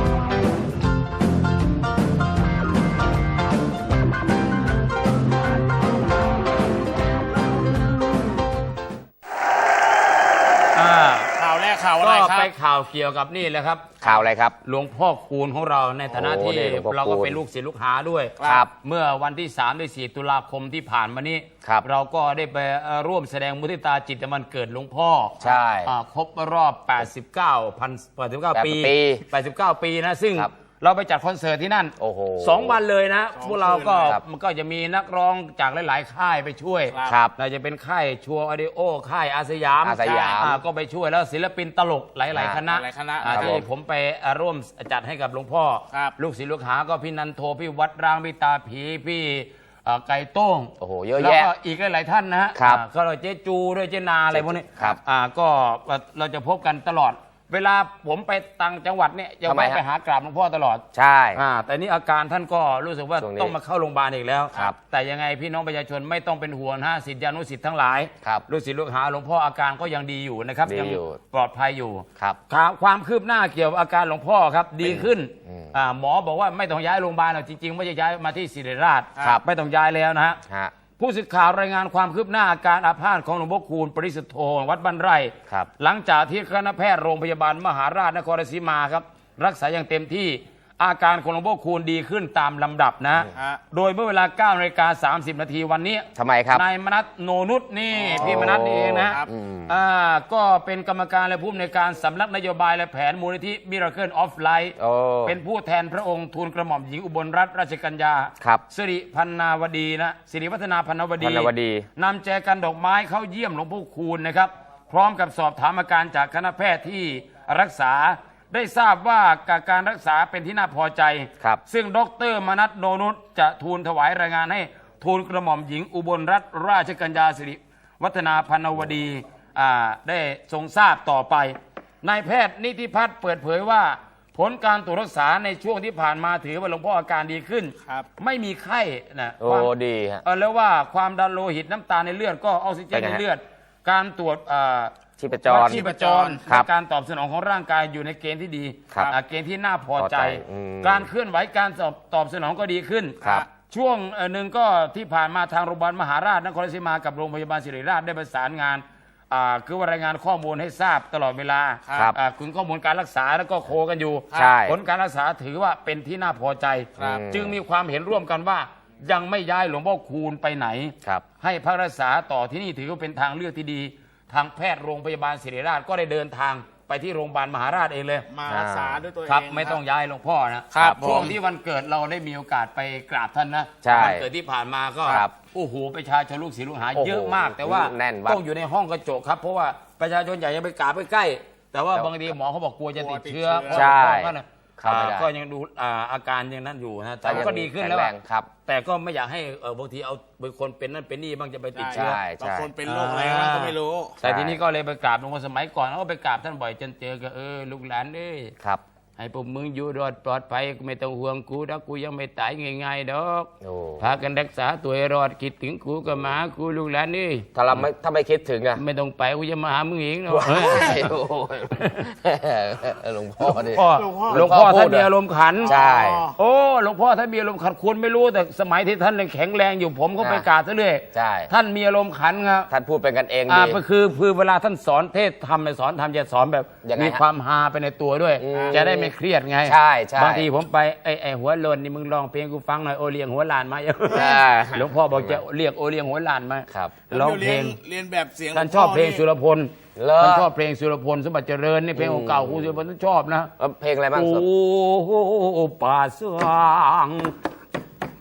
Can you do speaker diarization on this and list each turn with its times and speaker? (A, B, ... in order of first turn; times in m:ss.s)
0:10.7-0:11.3 A
0:11.3-0:12.5 B
0:12.0-0:14.0 A
0:14.0-0:14.6 C
0:14.6-1:20.4 A
0:16.1-0:17.4 C
0:18.4-0:18.6 B
0:18.4-0:18.7 C
0:25.4-0:25.9 C
0:28.5-0:29.2 C
0:32.0-0:32.8 C
0:33.4-0:34.2 B
0:36.9-0:37.2 B
0:37.0-0:37.3 C
0:39.8-0:40.6 C
0:40.0-0:40.4 B
0:42.3-0:42.6 C
0:42.7-0:43.6 B
0:43.3-0:43.6 C
0:50.8-0:51.5 C
0:52.5-0:52.8 C
0:54.3-0:55.0 C
0:59.4-0:59.8 C
1:00.9-1:01.4 C
1:03.2-1:03.6 C
1:10.6-1:11.2 C
1:14.8-1:15.7 C
1:20.5-1:20.7 C
1:21.0-2:19.7 A
1:33.3-1:33.6 B
1:36.1-1:36.6 C
1:38.0-1:39.7 C
1:44.8-1:45.4 C
1:51.2-1:51.9 C
2:19.4-2:20.2 C
2:20.2-2:58.3 A
2:22.9-2:23.2 C
2:25.2-2:25.8 C
2:25.6-2:26.4 B
2:30.0-2:31.1 C
2:33.2-2:33.5 B
2:41.8-2:42.1 B
2:44.3-2:44.8 C
2:47.0-2:47.2 B
2:47.0-2:47.6 C
2:58.3-2:59.8 B
2:58.5-2:59.0 C
2:59.2-3:18.1 A
3:00.7-3:01.4 B
3:03.8-3:04.3 C
3:05.0-3:05.3 C
3:06.9-3:08.4 C
3:12.9-3:13.9 B
3:13.7-3:15.3 C
3:17.2-3:18.5 C
3:18.6-3:22.2 A
3:21.7-3:24.2 B
3:21.9-3:22.7 C
3:22.8-3:28.5 A
3:24.2-3:24.6 C
3:29.2-3:37.8 A
3:33.6-3:34.0 C
3:37.5-3:38.8 C
3:38.8-3:41.1 A
3:40.3-3:45.1 C
3:41.7-3:42.1 A
3:43.5-3:45.8 A
3:43.8-3:44.5 B
3:45.6-3:46.4 B
3:45.6-3:46.2 C
3:46.4-3:52.7 A
3:50.2-3:50.4 C
3:51.1-3:51.5 C
3:52.7-3:53.8 C
3:53.5-4:07.8 A
3:56.8-3:57.2 C
3:58.4-4:00.5 C
3:58.5-3:58.8 B
4:04.1-4:05.4 C
4:06.7-4:07.0 C
4:07.1-4:09.2 B
4:08.5-4:13.5 A
4:10.0-4:10.5 C
4:12.0-4:12.7 C
4:13.6-4:14.4 C
4:14.1-4:17.3 A